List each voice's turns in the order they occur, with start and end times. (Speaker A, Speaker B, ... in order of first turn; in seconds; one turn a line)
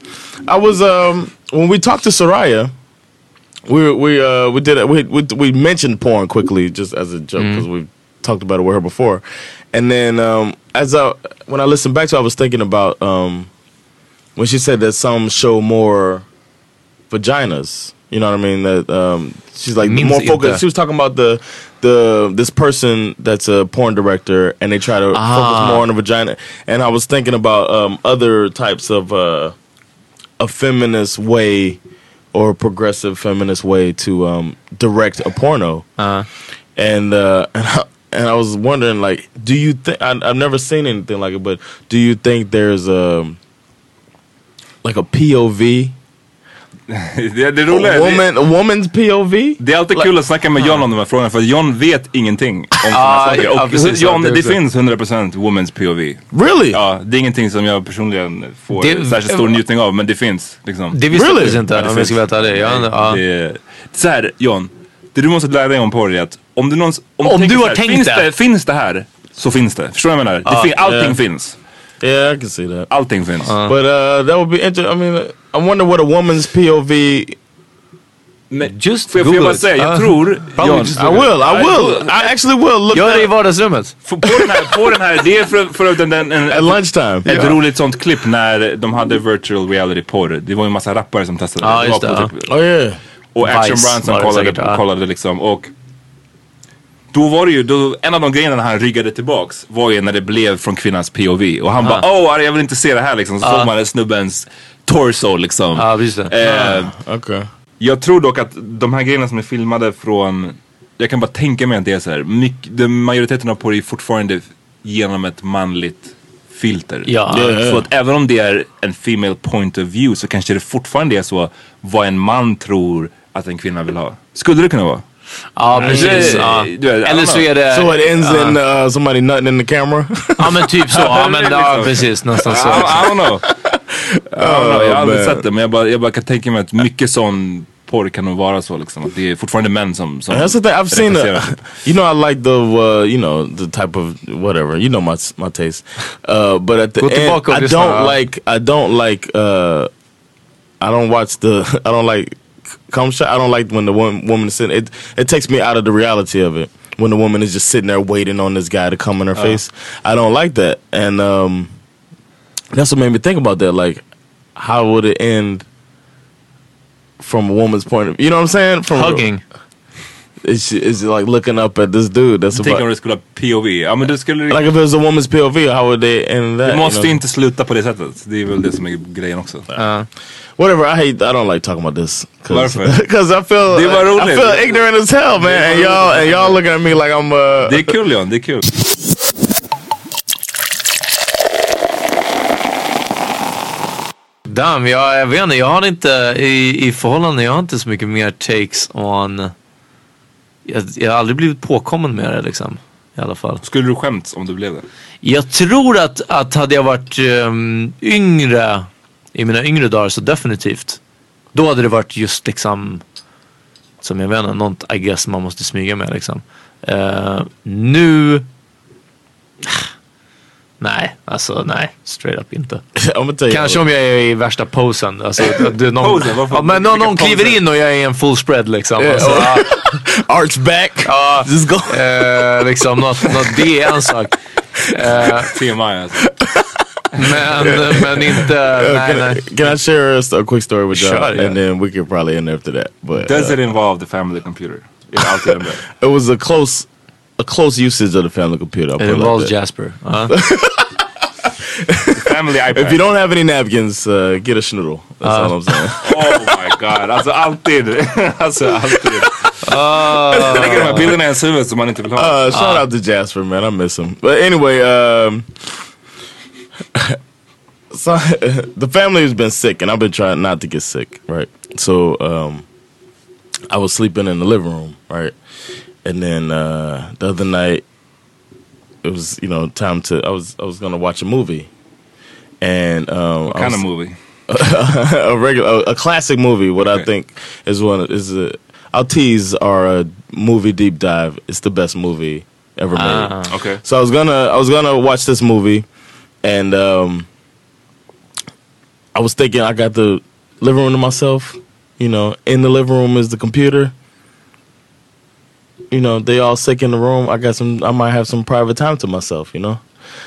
Speaker A: 0.5-2.7
Speaker A: 3.7-13.5
Speaker B: 7.4-7.7
Speaker A: 14.4-16.2
Speaker A: 17.1-29.6
Speaker B: 19.8-20.6
Speaker B: 25.1-25.9
Speaker A: 30.4-31.8
Speaker A: 32.3-35.9
Speaker B: 36.0-36.3
Speaker A: 36.8-43.4
Speaker A: 44.8-46.0
Speaker C: 46.9-48.3
Speaker A: 47.7-50.1
Speaker C: 49.6-61.0
Speaker B: 52.9-54.6
Speaker A: 56.3-56.8
Speaker B: 58.8-59.5
Speaker B: 60.9-63.2
Speaker A: 61.1-61.7
Speaker C: 61.7-71.6
Speaker B: 67.2-68.2
Speaker A: 70.5-71.2
Speaker A: 72.0-72.9
Speaker C: 72.9-73.5
Speaker B: 73.5-73.7
Speaker A: 73.6-77.4
Speaker C: 78.5-82.3
Speaker B: 78.7-81.2
Speaker A: 80.9-83.3
Speaker B: 82.9-84.0
Speaker C: 84.1-92.5
Speaker A: 86.5-87.4
Speaker B: 87.3-87.6
Speaker B: 91.6-92.3
Speaker A: 92.5-93.0
Speaker C: 93.3-95.7
Speaker B: 93.4-94.8
Speaker C: 97.1-106.9
Speaker B: 103.4-103.7
Speaker B: 105.8-106.3
Speaker A: 106.4-107.5
Speaker C: 107.8-125.0
Speaker B: 117.1-117.6
Speaker A: 117.3-117.9
Speaker B: 125.6-128.6
Speaker C: 125.7-127.5
Speaker A: 125.8-126.5
Speaker A: 127.7-130.5
Speaker B: 130.4-133.1
Speaker C: 130.9-133.5
Speaker A: 132.6-135.4
Speaker C: 134.4-141.6
Speaker A: 140.3-149.9
Speaker B: 147.0-148.2
Speaker A: 150.8-161.7
Speaker A: 162.7-164.0
Speaker A: 164.6-165.7
Speaker A: 167.2-169.2
Speaker B: 168.9-169.4
Speaker A: 170.4-172.8
Speaker C: 172.5-174.7
Speaker A: 174.5-177.2
Speaker C: 176.7-179.7
Speaker B: 179.8-180.1
Speaker A: 180.6-187.9
Speaker C: 182.5-183.0
Speaker C: 183.7-184.8
Speaker C: 185.4-186.6
Speaker C: 187.6-188.7
Speaker B: 194.5-199.5
Speaker B: 200.7-203.6
Speaker C: 203.6-204.9
Speaker B: 205.2-211.0
Speaker B: 211.5-213.0
Speaker B: 214.0-218.4
Speaker B: 220.8-222.8
Speaker A: 223.0-223.8
Speaker B: 223.5-229.8
Speaker C: 225.9-227.6
Speaker A: 229.0-232.1
Speaker B: 231.1-234.3
Speaker B: 234.9-235.5
Speaker C: 235.4-236.3
Speaker A: 236.4-236.8
Speaker B: 237.2-239.5
Speaker A: 237.6-243.6
Speaker B: 240.9-241.6
Speaker C: 243.2-245.8
Speaker A: 245.9-246.9
Speaker A: 247.4-249.5
Speaker B: 249.0-250.4
Speaker A: 250.3-250.9
Speaker A: 251.6-256.6
Speaker C: 252.1-253.0
Speaker B: 255.2-255.6
Speaker C: 256.0-259.6
Speaker B: 259.6-261.1
Speaker C: 260.3-262.4
Speaker A: 260.4-261.1
Speaker A: 262.2-265.7
Speaker B: 262.5-262.8
Speaker A: 267.9-272.6
Speaker A: 273.7-275.4
Speaker A: 276.0-277.8
Speaker A: 279.0-281.7
Speaker A: 282.6-283.8
Speaker C: 283.5-284.2
Speaker A: 284.5-295.9
Speaker C: 286.8-287.1
Speaker B: 293.0-293.5
Speaker C: 293.5-293.8
Speaker A: 296.4-297.3
Speaker A: 299.1-303.9
Speaker A: 305.9-309.8